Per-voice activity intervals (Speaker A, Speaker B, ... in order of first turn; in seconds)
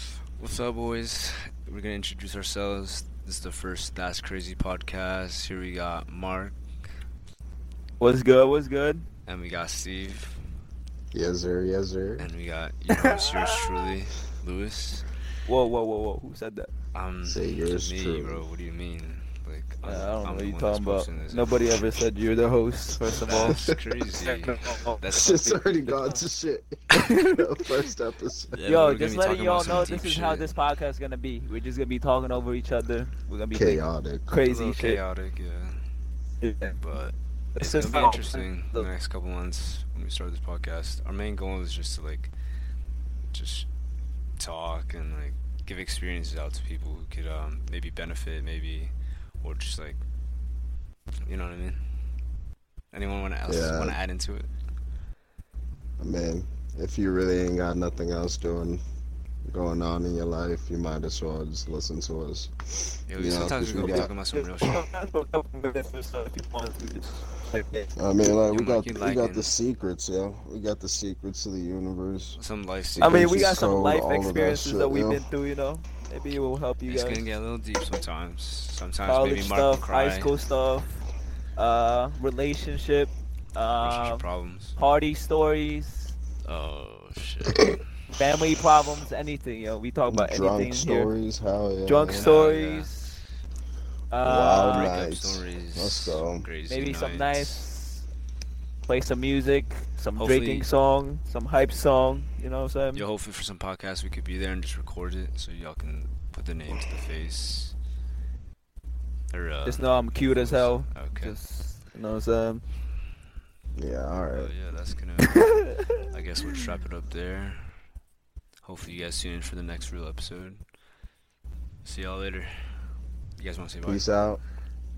Speaker A: 0.3-6.6, 9.3-10.4, 12.2-15.2, 16.9-21.6, 23.2-25.6, 28.5-30.6, 34.5-35.8, 36.8-42.3, 43.3-43.7, 44.4-50.0, 51.2-51.8, 52.9-54.5, 63.1-64.8, 68.5-69.5, 72.3-73.8, 76.8-80.4, 83.8-84.8, 86.4-87.7, 92.1-93.2, 94.7-97.7, 100.2-100.7, 102.9-107.8, 109.3-111.3, 114.3-117.8, 118.6-120.6, 121.8-124.0
Speaker B: 8.0-9.1, 13.0-13.4, 15.5-16.7, 19.8-25.0, 25.9-26.2, 26.9-27.4, 28.7-35.0, 36.4-36.8, 37.5-38.9, 63.8-67.9, 73.0-77.3, 79.0-86.2, 88.1-91.1, 91.8-93.0, 94.1-94.9, 96.7-98.1, 98.8-103.0, 109.6-112.6, 115.3-115.8
Speaker C: 11.1-12.3, 17.2-18.4, 23.3-23.7, 25.1-28.6, 33.5-34.4, 53.5-54.0, 56.0-58.8, 59.5-64.1, 68.0-72.4, 73.0-75.2, 90.1-92.3, 94.2-96.5, 113.7-114.5, 123.8-124.4